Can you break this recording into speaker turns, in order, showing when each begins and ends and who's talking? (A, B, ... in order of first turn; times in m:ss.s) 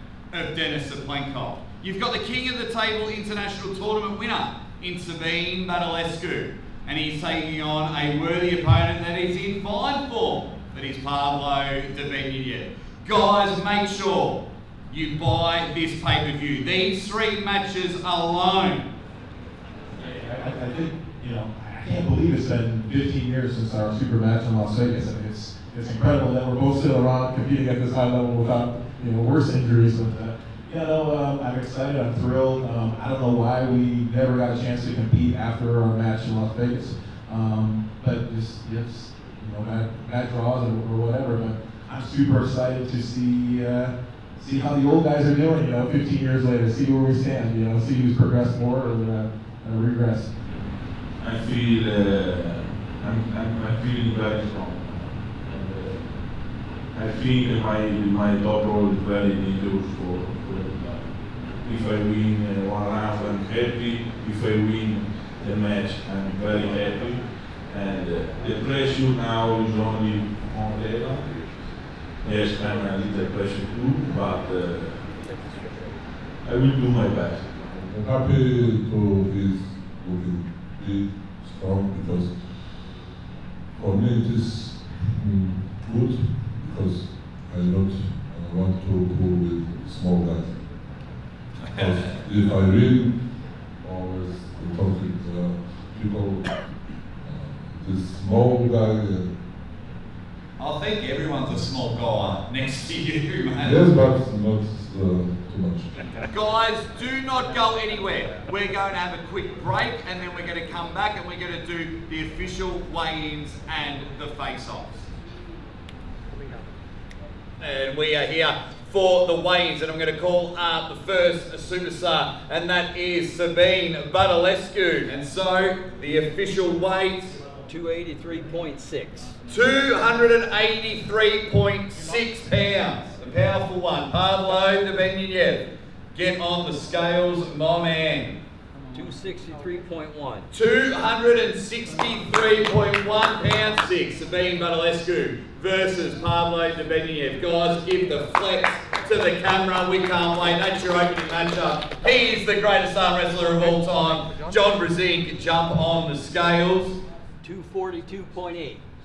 0:00.3-0:18.9 A
0:20.0-0:50.3 B
0:51.2-1:15.4 C
1:16.4-1:17.9 C
1:17.8-1:22.9 D
1:23.7-1:30.7 D
1:31.6-1:32.1 A
1:31.7-1:36.6 D
1:37.1-1:39.3 D
1:40.6-1:43.9 A
1:43.6-1:45.9 D
1:46.3-1:55.1 A
1:57.6-2:07.4 A
2:07.7-2:09.3 E
2:09.5-2:18.4 A
2:18.9-2:20.5 E
2:20.5-2:37.0 A
2:37.4-2:38.8 E